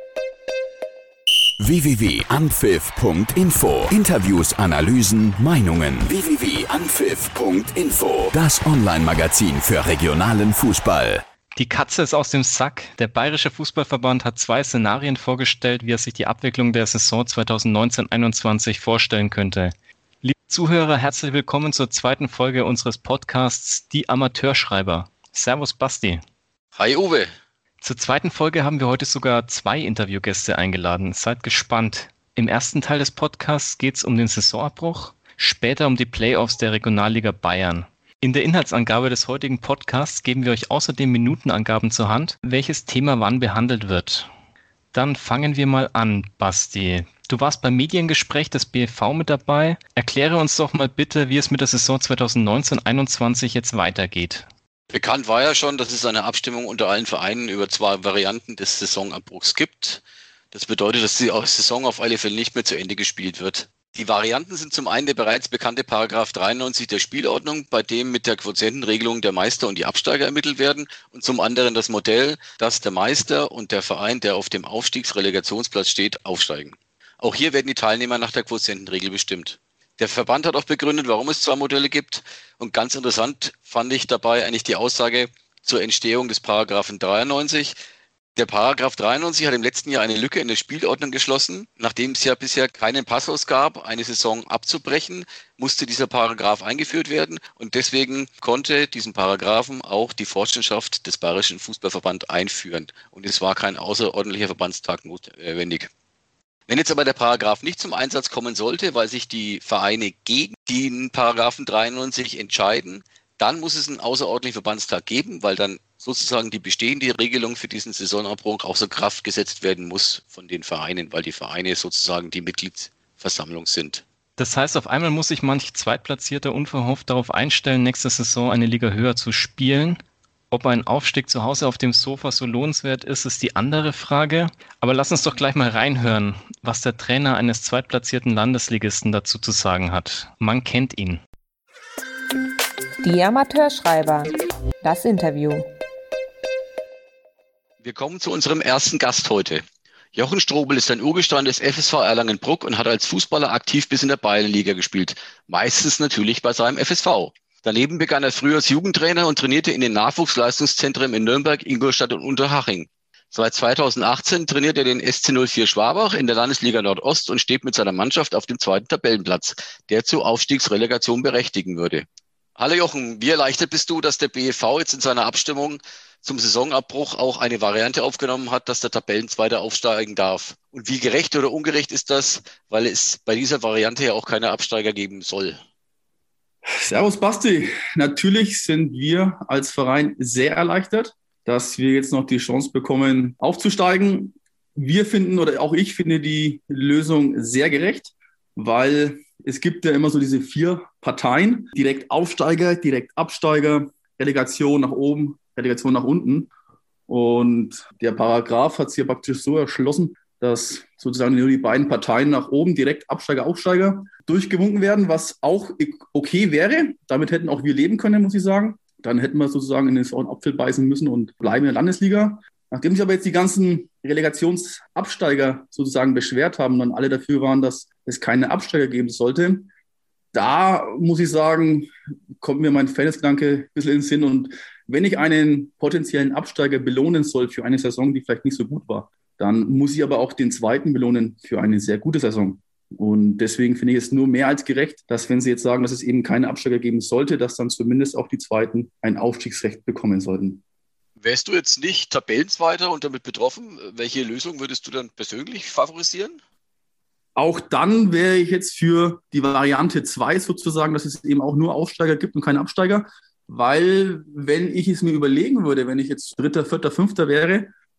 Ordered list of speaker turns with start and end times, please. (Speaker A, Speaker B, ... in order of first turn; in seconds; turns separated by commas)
Speaker A: 1.6-11.2, Speaker B: 11.6-26.2, Speaker C: 26.7-27.3, Speaker B: 27.8-44.3, Speaker B: 44.9-54.5, Speaker C: 54.9-87.8, Speaker C: 88.3-105.9, Speaker C: 106.7-124.0, Speaker B: 124.4-130.0, Speaker B: 130.5-141.2, Speaker D: 143.0-145.7, Speaker C: 147.8-149.6, Speaker C: 150.1-172.1, Speaker C: 172.6-185.6, Speaker E: 186.7-206.5, Speaker E: 207.1-229.7, Speaker E: 230.3-231.9, Speaker E: 232.4-250.6, Speaker C: 251.2-256.4, Speaker E: 257.4-267.7